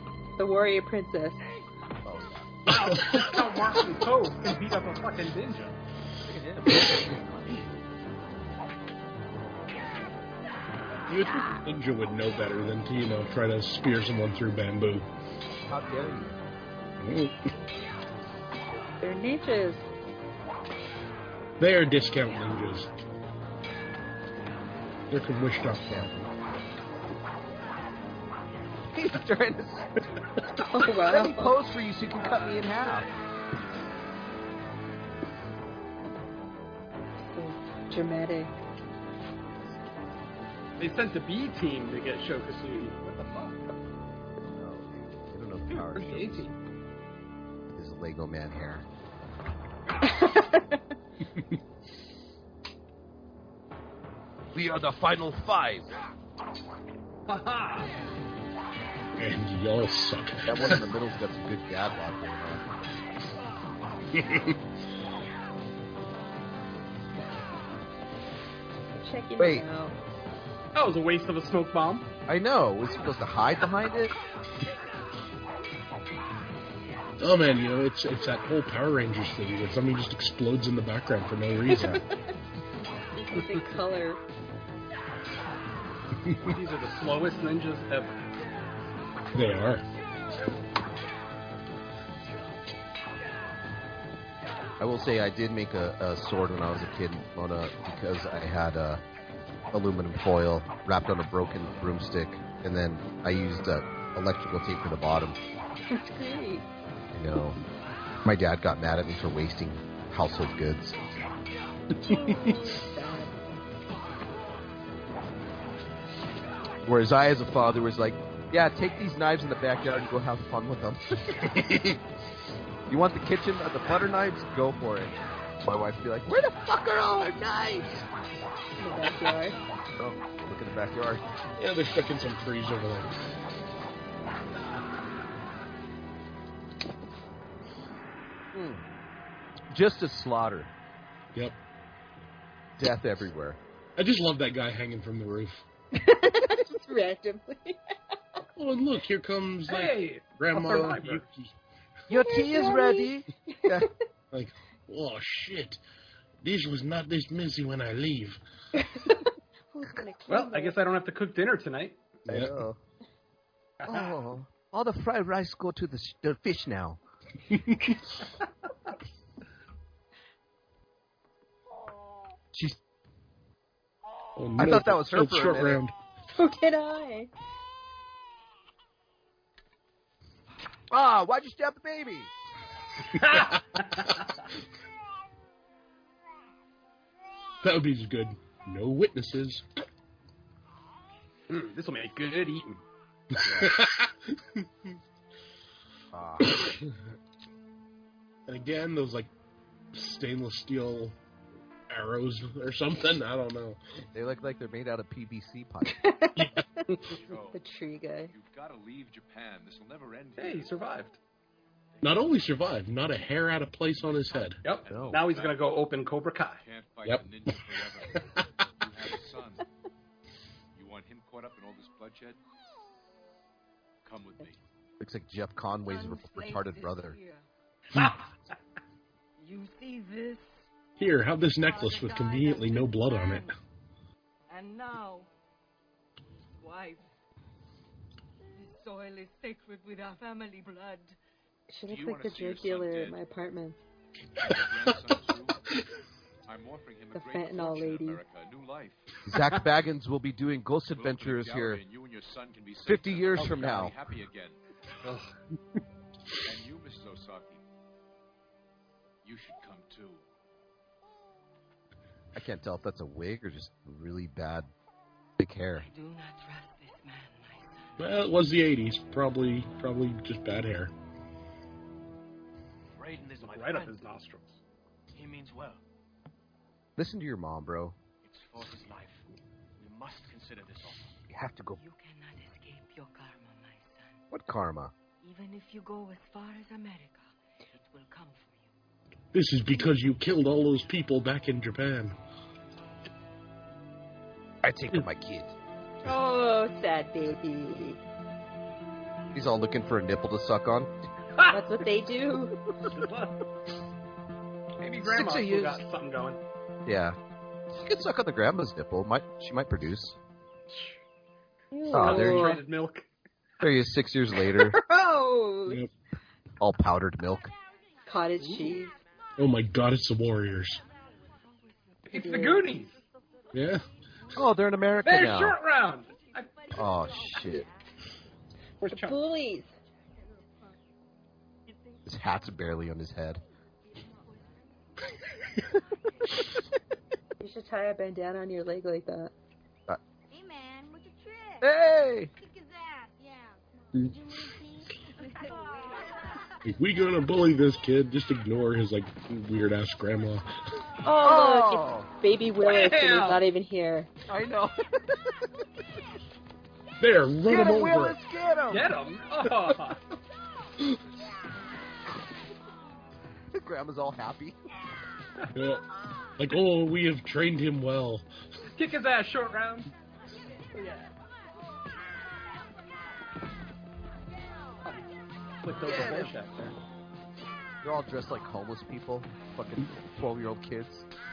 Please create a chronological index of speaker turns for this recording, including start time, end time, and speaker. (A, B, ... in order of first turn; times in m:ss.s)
0:00.4-0:01.4 A
0:02.0-0:02.6 B
0:02.7-0:05.8 C
0:02.7-0:03.4 D
0:06.2-0:07.7 B
0:11.1-0:15.1 D
0:15.7-0:16.4 B
0:17.0-0:17.4 D
0:19.0-0:19.9 A
0:21.6-0:22.9 D
0:25.1-0:26.1 D
0:25.6-0:26.3 B
0:28.9-0:29.9 B
0:30.6-0:31.6 A
0:31.0-0:33.1 B
0:37.2-0:38.6 A
0:40.8-0:43.5 C
0:44.4-0:46.6 B
0:45.7-0:46.5 C
0:47.7-0:48.9 B
0:50.0-0:50.8 A
0:54.5-0:56.0 B
0:57.3-0:57.9 C
0:59.2-1:00.8 D
1:00.5-1:02.6 B
1:04.2-1:04.6 D
1:08.9-1:10.0 A
1:09.4-1:09.6 B
1:10.8-1:12.1 C
1:12.3-1:14.2 B
1:17.2-1:22.0 D
1:23.1-1:24.2 A
1:23.4-1:23.6 C
1:26.4-1:28.2 C
1:29.3-1:29.8 D
1:34.8-1:39.0 B
1:39.7-1:45.4 B
1:45.9-1:46.7 A
1:47.1-1:47.6 B
1:48.2-1:51.0 B
1:52.0-1:53.4 A
1:52.1-1:52.6 D
1:56.8-2:02.0 B
2:02.9-2:08.1 B
2:08.8-2:09.6 A
2:10.0-2:11.2 B
2:11.6-2:13.1 D
2:18.5-2:18.8 B
2:19.7-2:20.7 B
2:22.8-2:23.6 B
2:24.0-2:25.7 D
2:25.9-2:27.8 A
2:28.6-2:31.5 D
2:29.7-2:31.2 C
2:32.1-2:33.9 B
2:32.2-2:33.9 A
2:34.3-2:35.8 D
2:36.4-2:38.4 D
2:38.8-2:40.8 A
2:40.3-2:42.0 C
2:42.3-2:42.8 B
2:42.3-2:42.6 D
2:43.8-2:44.2 C
2:43.9-2:47.0 B
2:47.5-2:48.0 D
2:54.4-2:55.9 D
2:54.6-2:55.8 B
2:56.3-2:57.3 A
3:00.9-3:02.3 B
3:03.2-3:04.3 C
3:07.6-3:09.7 D
3:11.5-3:12.8 C
3:13.4-3:14.6 D
3:13.4-3:13.8 B
3:16.1-3:16.7 B
3:18.5-3:19.3 D
3:19.9-3:21.2 D
3:21.9-3:23.8 D
3:24.1-3:26.1 B
3:25.9-3:26.5 A
3:27.1-3:27.6 E
3:27.5-3:28.3 A
3:28.2-3:30.8 E
3:30.4-3:31.2 C
3:32.0-3:34.6 D
3:34.6-3:36.6 C
3:34.7-3:35.7 E
3:34.9-3:35.3 B
3:36.6-3:38.3 E
3:38.8-3:39.6 E
3:40.7-3:42.4 E
3:44.0-3:44.6 E
3:45.0-3:47.2 B
3:45.8-3:47.4 F
3:49.4-3:50.7 F
3:51.0-3:53.5 D
3:51.6-3:53.5 F
3:54.5-3:55.3 F
3:56.5-3:57.1 F
3:58.6-4:01.2 F
4:01.7-4:03.8 A
4:01.9-4:03.2 E
4:04.4-4:05.6 E
4:06.5-4:09.1 E
4:07.1-4:08.2 A
4:09.3-4:11.8 B
4:10.9-4:14.6 E
4:12.8-4:14.0 B
4:13.4-4:13.8 C
4:15.0-4:15.3 C
4:16.4-4:17.6 E
4:19.2-4:20.2 E
4:22.4-4:24.7 B
4:25.4-4:25.9 B
4:25.8-4:28.1 F
4:28.0-4:30.9 D
4:33.0-4:34.0 G
4:33.4-4:34.6 C
4:35.1-4:35.8 G
4:37.0-4:38.0 B
4:38.2-4:41.2 G
4:41.3-4:41.8 B
4:41.8-4:44.2 F
4:44.3-4:44.9 B
4:45.2-4:48.7 F
4:49.3-4:52.2 D
4:54.6-4:55.5 B
4:56.0-4:58.0 A
4:59.3-5:00.9 B
5:01.4-5:01.6 C
5:01.5-5:02.6 A
5:02.9-5:03.4 C
5:04.8-5:06.4 C
5:05.0-5:05.8 B
5:06.9-5:07.2 B
5:07.7-5:10.2 B
5:11.7-5:12.6 A
5:11.9-5:12.6 B
5:12.0-5:13.1 C
5:13.6-5:14.8 B
5:14.7-5:15.8 A
5:16.6-5:17.5 B
5:18.1-5:19.0 A
5:18.4-5:18.8 C
5:19.4-5:20.8 D
5:20.8-5:24.5 F
5:22.1-5:23.0 C
5:22.1-5:22.7 A
5:23.5-5:23.8 D
5:24.3-5:25.6 B
5:25.0-5:26.5 C
5:26.1-5:27.9 F
5:26.7-5:27.7 B
5:28.8-5:29.2 C
5:28.9-5:29.8 A
5:30.2-5:30.7 F
5:31.7-5:32.5 F
5:32.1-5:33.4 B
5:33.8-5:34.8 F
5:37.4-5:39.3 A
5:40.3-5:41.8 H
5:41.6-5:42.3 B
5:42.4-5:45.9 H
5:45.2-5:46.2 F
5:46.6-5:50.5 D
5:51.0-5:54.1 A
5:51.2-5:52.1 B
5:52.6-5:53.4 C
5:54.3-5:55.4 B
5:57.0-5:58.2 D
5:57.5-5:59.0 B
5:58.7-6:00.0 C
6:03.5-6:04.6 B
6:05.6-6:05.8 D
6:06.4-6:08.3 D
6:08.8-6:09.9 C
6:15.6-6:16.8 C
6:15.8-6:16.3 B
6:17.8-6:21.1 B